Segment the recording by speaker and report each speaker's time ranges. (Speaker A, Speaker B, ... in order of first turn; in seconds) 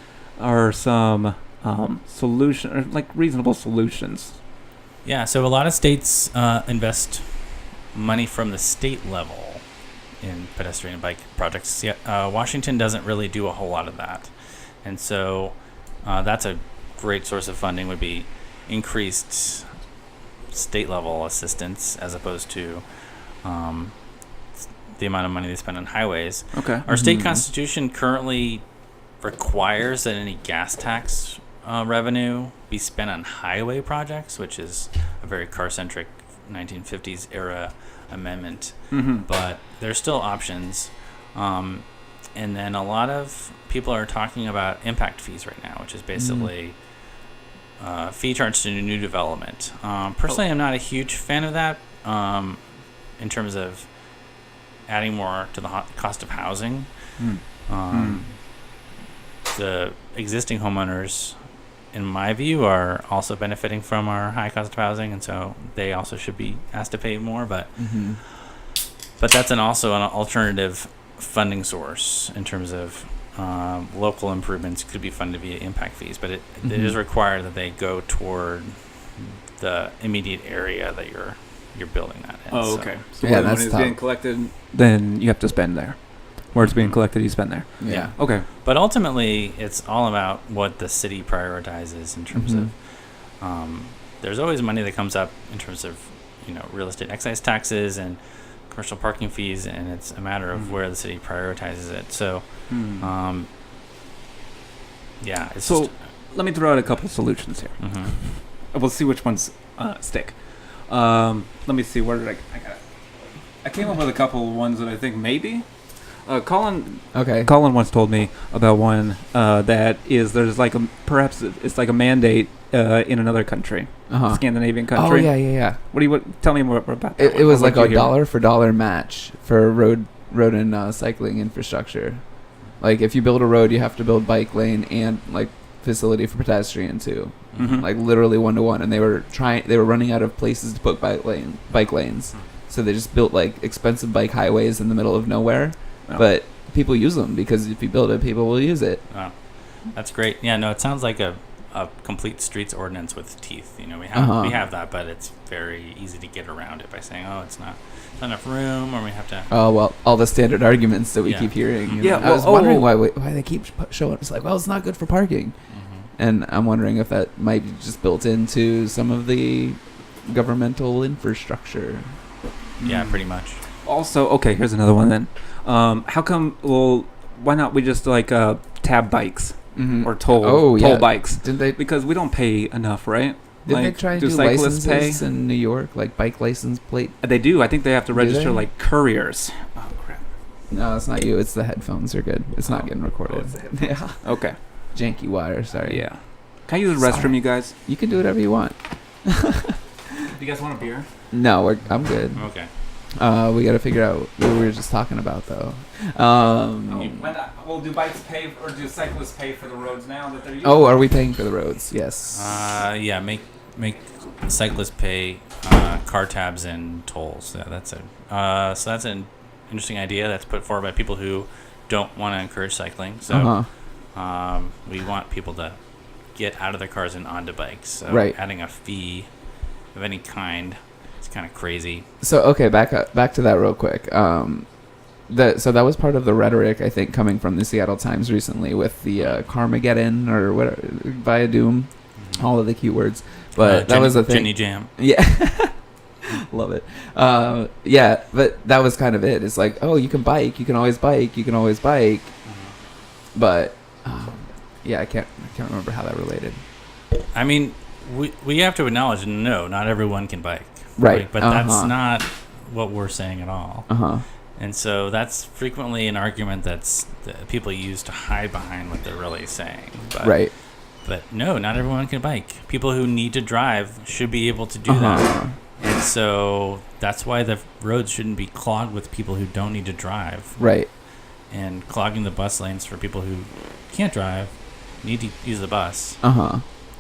Speaker A: 0.4-4.4, 26.6-26.9, 38.9-39.3, 57.2-58.2, 82.5-88.5, 102.7-103.1, 105.6-112.8, 113.6-115.7, 116.2-128.1, 137.6-137.9, 162.0-162.9, 172.8-173.2, 173.8-185.2, 187.2-190.2, 192.6-194.6, 195.8-197.7, 200.3-201.1, 206.9-211.1
Speaker B: 5.0-7.2, 7.9-9.6, 10.2-14.3, 14.8-19.7, 20.5-22.8, 23.4-23.9, 25.0-28.6, 29.2-41.8, 42.4-46.8, 47.8-52.6, 53.2-53.9, 54.9-56.9, 57.7-58.3, 59.5-61.4, 61.9-67.7, 69.2-82.9, 86.6-87.1, 87.8-92.7, 93.4-103.5, 105.2-105.9, 107.8-108.1, 137.5-137.9, 149.9-159.5, 161.2-162.3, 165.7-166.1, 172.8-173.6, 202.3-202.7, 212.3-223.6, 224.2-225.8, 226.3-229.3, 229.9-232.1, 242.2-242.5, 243.6-244.9, 252.4-252.7, 257.3-263.9, 264.6-270.4, 271.0-280.6, 281.5-286.2
Speaker C: 26.9-27.4, 46.2-46.5, 67.8-68.2, 76.7-77.0, 83.2-84.0, 87.8-88.1, 92.3-92.7, 117.1-117.5, 124.1-125.8, 127.2-132.2, 132.8-149.0, 154.1-154.6, 159.5-165.5, 166.2-172.1, 179.8-181.8, 183.7-187.2, 188.1-188.7, 190.7-194.2, 194.9-196.1, 197.0-199.8, 201.3-202.4, 203.2-207.3, 210.6-212.6, 223.3-223.7, 228.1-228.4, 232.2-234.7, 235.3-252.3, 253.3-256.6, 261.0-261.9, 263.9-264.2, 270.2-270.5, 274.9-275.5, 280.6-280.9, 286.2-286.6